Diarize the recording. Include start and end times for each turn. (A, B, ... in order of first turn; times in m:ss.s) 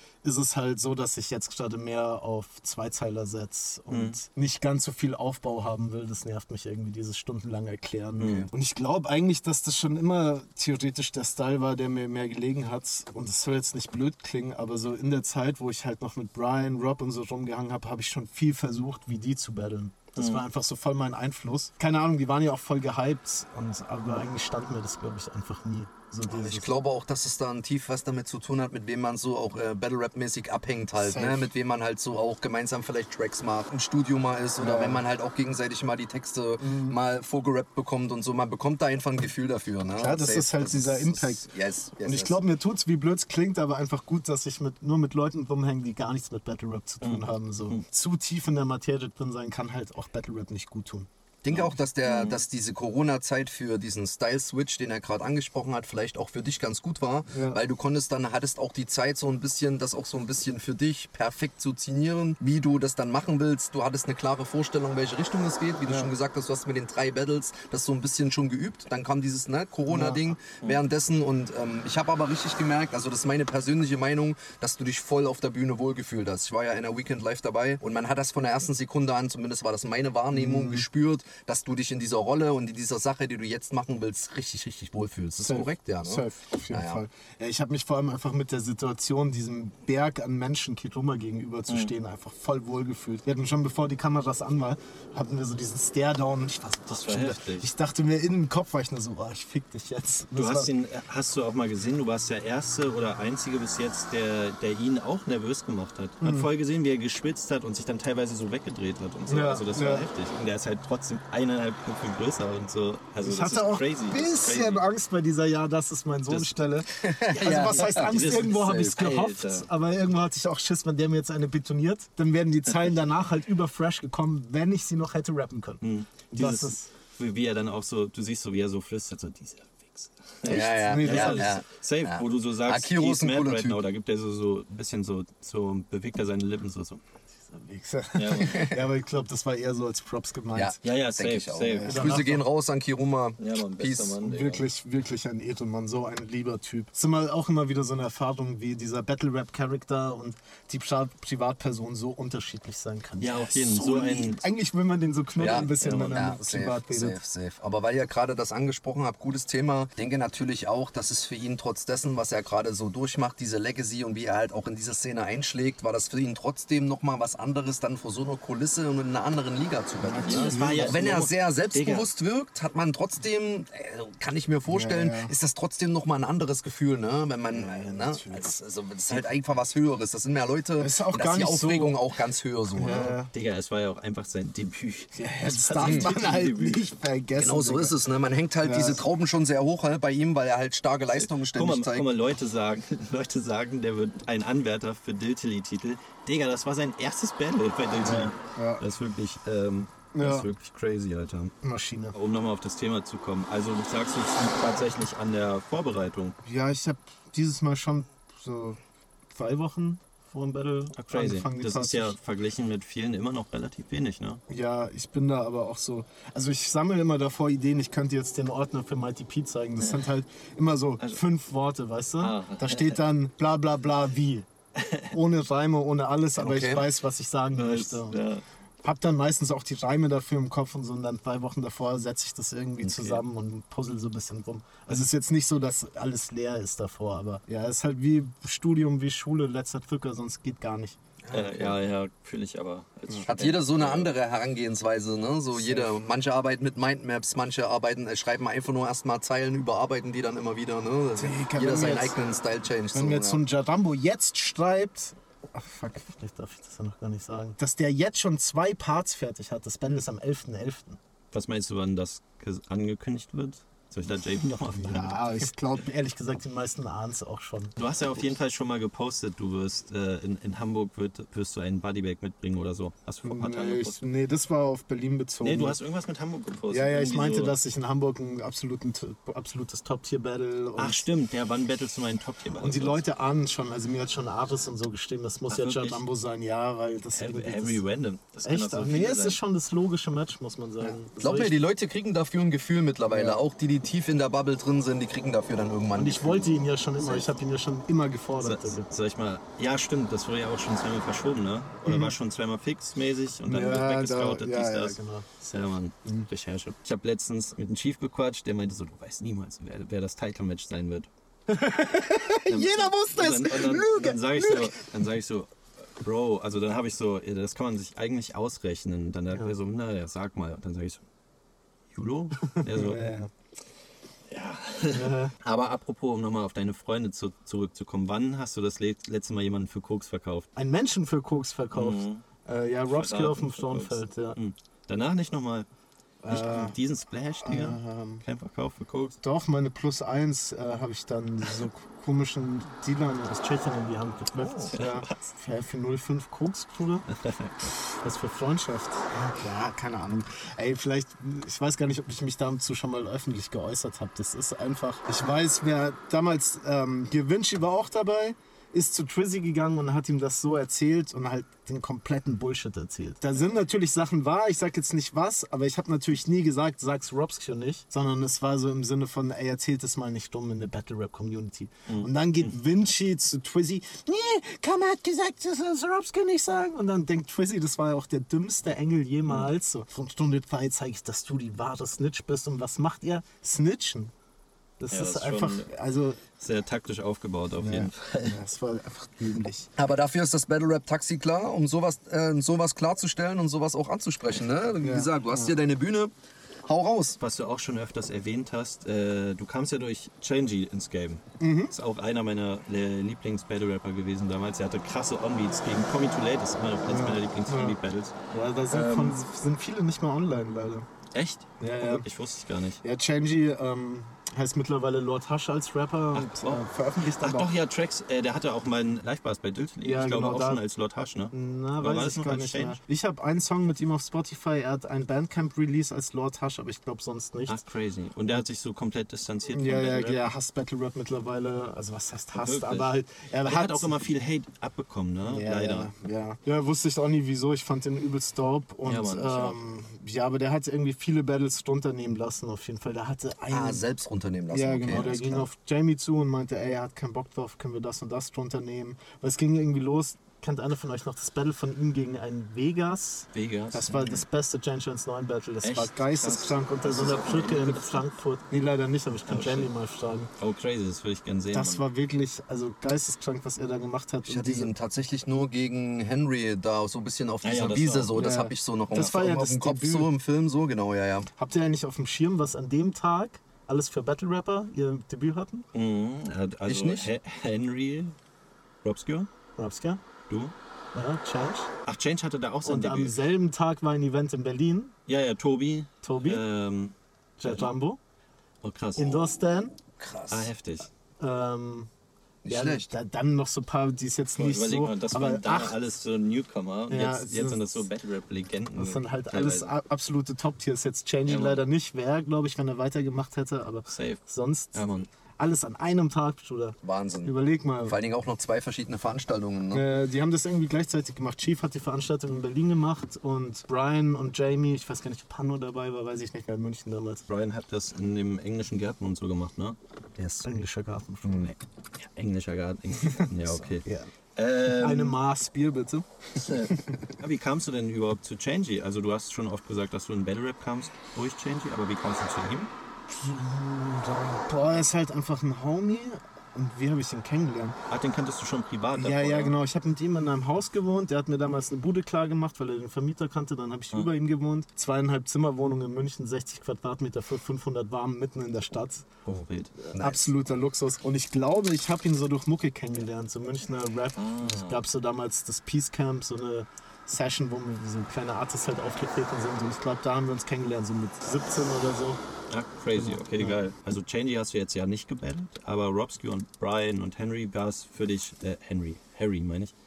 0:00.2-0:26.8 A
0:03.9-0:04.2 B
0:08.2-0:08.5 B
0:08.2-0:08.5 C
0:20.2-0:20.4 B
0:26.3-0:42.4 C
0:31.0-0:31.5 A
0:34.6-0:35.0 A
0:36.6-0:37.0 A
0:40.0-0:41.5 A
0:42.0-0:51.1 A
0:47.0-0:47.8 B
0:51.4-1:27.0 C
0:51.5-0:52.4 B
0:57.3-0:57.6 A
1:09.9-1:10.3 A
1:20.3-1:20.8 A
1:25.4-1:40.7 A
1:36.9-1:37.7 B
1:40.3-1:54.9 B
1:46.2-1:46.5 A
1:49.3-1:50.0 A
1:53.2-2:06.9 A
1:56.3-1:59.7 B
1:57.0-1:58.9 C
2:05.8-2:17.0 B
2:10.4-2:11.5 A
2:10.4-2:13.8 C
2:17.5-2:20.8 A
2:18.2-2:18.7 B
2:18.4-2:18.8 C
2:20.5-2:24.2 C
2:20.8-2:22.3 B
2:21.9-2:22.4 A
2:23.4-2:24.6 B
2:24.2-2:37.2 A
2:33.2-2:34.4 B
2:35.4-2:36.0 B
2:35.4-3:03.2 C
2:50.0-2:51.0 A
2:50.2-2:52.1 B
2:54.7-2:55.3 A
2:57.5-2:58.5 A
3:00.8-3:02.0 A
3:02.7-3:03.3 A
3:03.3-3:06.9 B
3:05.2-3:08.0 A
3:05.8-3:06.3 C
3:07.4-3:12.1 C
3:08.6-3:09.0 A
3:11.2-3:21.6 B
3:18.0-3:18.8 A
3:20.1-3:20.5 A
3:21.6-3:22.2 A
3:22.1-3:26.4 B
3:26.4-3:28.8 A
3:29.3-3:32.2 A
3:31.0-3:34.4 B
3:34.5-3:44.5 A
3:42.2-3:43.0 B
3:44.8-3:45.1 B
3:45.1-3:48.3 A
3:46.4-3:46.9 C
3:47.5-3:48.4 B
3:48.8-4:01.0 A
3:52.8-3:53.2 B
4:01.2-4:01.8 C
4:01.3-4:04.1 B
4:03.3-4:13.4 C
4:05.6-4:05.9 A
4:11.2-4:12.2 A
4:12.9-4:21.0 A
4:21.3-4:25.2 B
4:24.4-4:27.7 A
4:27.8-4:34.0 B
4:33.2-4:35.8 A
4:35.4-4:37.6 B
4:36.7-4:41.1 A
4:40.8-4:43.0 B
4:42.6-4:47.8 A
4:45.5-4:46.0 B
4:47.2-4:49.4 B
4:48.4-4:51.6 A
4:50.8-4:57.3 C
4:53.1-4:53.4 A
4:56.0-4:58.9 A
4:58.4-5:11.1 B
5:01.9-5:02.1 A
5:03.5-5:05.4 A
5:11.5-5:14.8 A
5:12.5-5:21.0 B
5:21.9-5:23.0 B
5:22.5-5:23.3 A
5:24.3-5:30.5 B
5:24.9-5:25.3 A
5:30.6-5:34.4 A
5:31.7-5:32.2 B
5:32.9-5:35.7 B
5:36.2-5:36.8 A
5:36.3-5:39.2 B
5:37.4-5:38.2 A
5:39.2-5:47.1 A
5:44.4-5:44.7 C
5:44.8-5:45.2 B
5:47.2-5:47.5 B
5:48.0-6:24.1 A
6:11.9-6:12.5 B
6:24.8-6:26.2 A
6:24.9-6:25.7 B
6:26.4-6:28.4 B
6:27.6-6:29.7 A
6:29.8-6:36.1 C
6:34.8-6:35.5 A
6:36.7-6:37.2 C
6:37.2-6:48.2 B
6:41.4-6:41.7 A
6:46.9-6:47.8 A
6:48.3-6:50.9 A
6:48.7-6:49.2 B
6:51.1-6:52.8 B
6:51.6-6:52.0 A
6:52.8-6:57.5 A
6:56.1-7:02.8 B
6:59.8-7:00.6 A
7:01.3-7:07.6 A
7:07.5-7:10.2 B
7:09.5-7:14.0 A
7:12.4-7:12.9 B
7:13.4-7:15.9 B
7:15.2-7:23.8 A
7:18.8-7:19.6 B
7:23.5-7:25.5 C
7:24.5-7:40.3 A
7:33.3-7:34.2 B
7:35.6-7:38.1 B
7:39.3-7:39.7 B
7:40.4-7:41.8 B
7:41.5-7:44.7 A
7:44.3-7:51.3 C
7:47.4-7:48.2 B
7:48.2-7:50.1 A
7:51.4-7:55.6 A
7:55.7-7:58.2 B
7:56.7-7:57.1 C
7:58.8-7:59.3 B
7:59.6-8:00.0 A
8:00.9-8:01.7 A
8:01.9-8:03.2 B
8:02.6-8:04.9 A
8:05.1-8:06.9 B
8:06.0-8:06.4 A
8:07.4-8:08.0 A
8:08.6-8:09.3 B
8:09.0-8:09.7 A
8:10.0-8:10.5 C
8:10.3-8:10.9 B
8:11.2-8:11.9 A
8:12.4-8:12.9 C
8:12.5-8:15.8 A
8:14.4-8:19.7 B
8:16.9-8:17.8 A
8:18.8-8:28.0 A
8:21.3-8:21.6 B
8:23.9-8:24.2 B
8:24.8-8:25.1 B
8:26.8-8:27.3 C
8:27.8-8:29.9 C
8:29.7-8:37.2 A
8:37.3-8:40.3 B
8:40.4-8:41.6 A
8:41.3-8:43.8 B
8:43.0-8:44.1 A
8:44.4-8:45.2 B
8:44.7-8:47.0 A
8:46.4-8:52.7 B
8:53.1-8:57.8 A
8:57.9-8:59.5 B
8:59.0-9:09.1 A
9:09.3-9:09.7 B
9:09.9-9:22.2 A
9:09.9-9:10.3 C
9:14.2-9:14.8 B
9:22.5-9:29.7 B
9:23.0-9:23.6 A